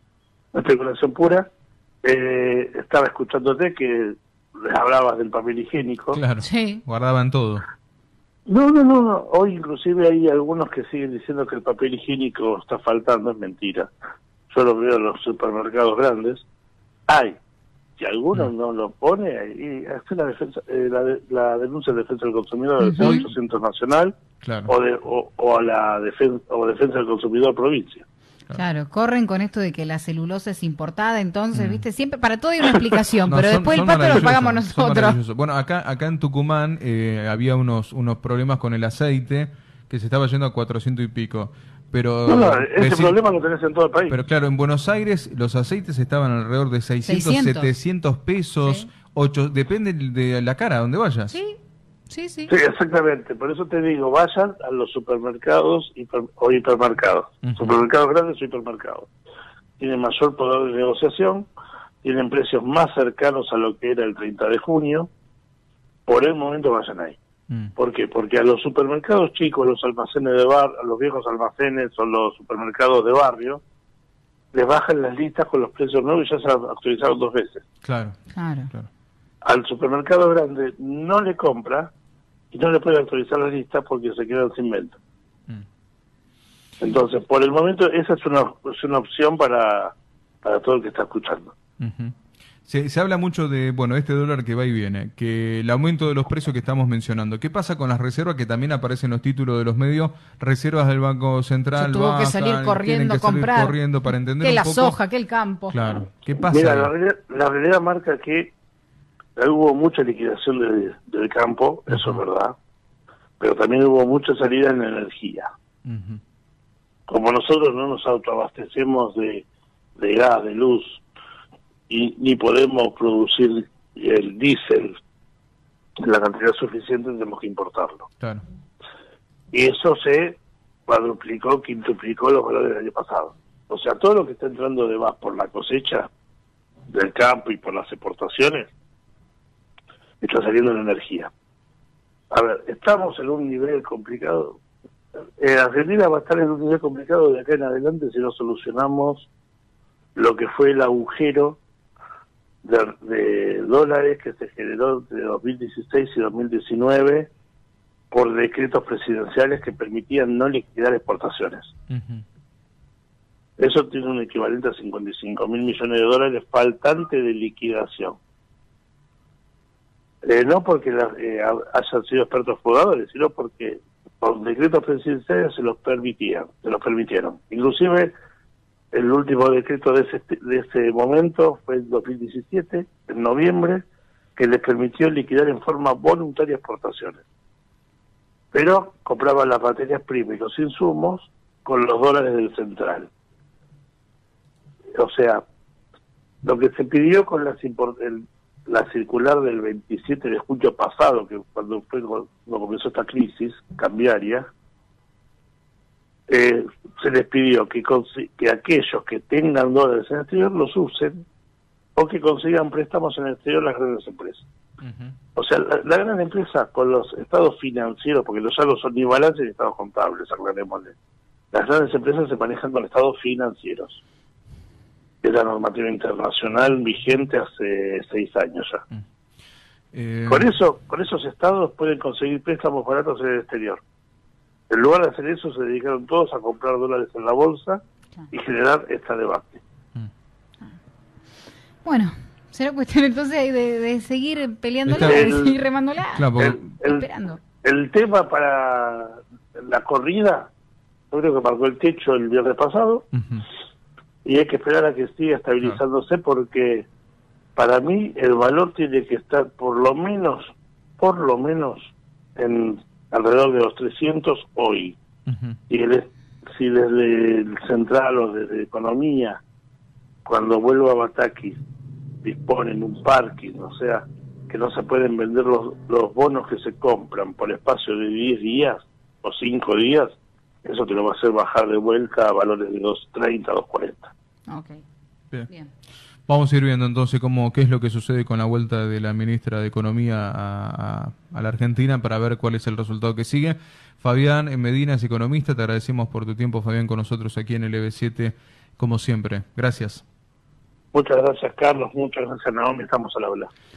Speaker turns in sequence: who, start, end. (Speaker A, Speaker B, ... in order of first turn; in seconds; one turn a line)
Speaker A: 0.5-1.5
Speaker A: 2.0-6.2
Speaker B: 6.1-7.6
Speaker C: 6.4-6.8
Speaker A: 8.5-13.9
Speaker A: 14.5-16.4
Speaker A: 17.1-17.4
Speaker A: 18.0-24.1
Speaker C: 22.8-23.3
Speaker B: 24.4-24.7
Speaker A: 24.7-28.0
Speaker C: 28.5-35.2
Speaker B: 31.5-31.8
Speaker B: 33.3-43.2
Speaker A: 42.3-44.1
Speaker B: 44.1-51.4
Speaker C: 47.0-47.7
Speaker C: 48.6-48.9
Speaker C: 51.3-51.6
Speaker C: 52.1-52.5
Speaker A: 52.5-59.1
Speaker B: 57.5-57.8
Speaker A: 59.8-61.5
Speaker A: 62.0-65.1
Speaker A: 66.1-67.2
Speaker A: 67.8-73.6
Speaker A: 74.5-77.6
Speaker B: 77.8-78.2
Speaker C: 78.3-78.7
Speaker A: 79.4-81.9
Speaker A: 82.5-85.0
Speaker A: 86.8-91.5
Speaker B: 91.8-105.0
Speaker C: 101.7-103.8
Speaker C: 104.4-105.8
Speaker B: 105.7-106.9
Speaker A: 106.5-108.5
Speaker A: 109.4-112.5
Speaker B: 111.9-112.2
Speaker A: 113.4-115.5
Speaker B: 115.8-116.2
Speaker A: 117.1-119.5
Speaker A: 120.0-121.0
Speaker A: 121.9-125.0
Speaker A: 126.0-128.1
Speaker B: 128.2-128.4
Speaker A: 129.5-136.1
Speaker A: 136.9-138.7
Speaker A: 140.2-141.3
Speaker A: 142.3-144.6
Speaker A: 145.4-149.3
Speaker A: 150.1-151.6
Speaker A: 152.6-157.3
Speaker A: 158.1-161.7
Speaker B: 161.9-162.2
Speaker A: 163.6-168.2
Speaker A: 170.2-178.1
Speaker A: 178.9-183.8
Speaker A: 184.3-187.2
Speaker A: 188.5-193.1
Speaker A: 195.0-195.4
Speaker A: 196.4-204.5
Speaker A: 206.3-211.2
Speaker A: 211.9-214.4
Speaker B: 214.8-215.1
Speaker A: 215.3-220.9
Speaker A: 221.5-224.0
Speaker A: 225.2-228.8
Speaker B: 229.9-230.5
Speaker A: 230.3-233.8
Speaker A: 234.7-239.6
Speaker C: 241.8-246.3
Speaker B: 244.8-245.3
Speaker A: 245.0-245.6
Speaker B: 246.1-246.7
Speaker A: 246.4-247.1
Speaker C: 246.8-247.4
Speaker A: 247.6-250.5
Speaker A: 251.1-253.1
Speaker B: 253.1-253.4
Speaker A: 254.2-256.9
Speaker A: 257.6-265.0
Speaker B: 265.3-265.6
Speaker A: 265.7-269.4
Speaker A: 270.2-271.6
Speaker A: 272.2-284.1
Speaker C: 284.5-284.8
Speaker B: 286.3-300.0
Speaker A: 300.9-303.5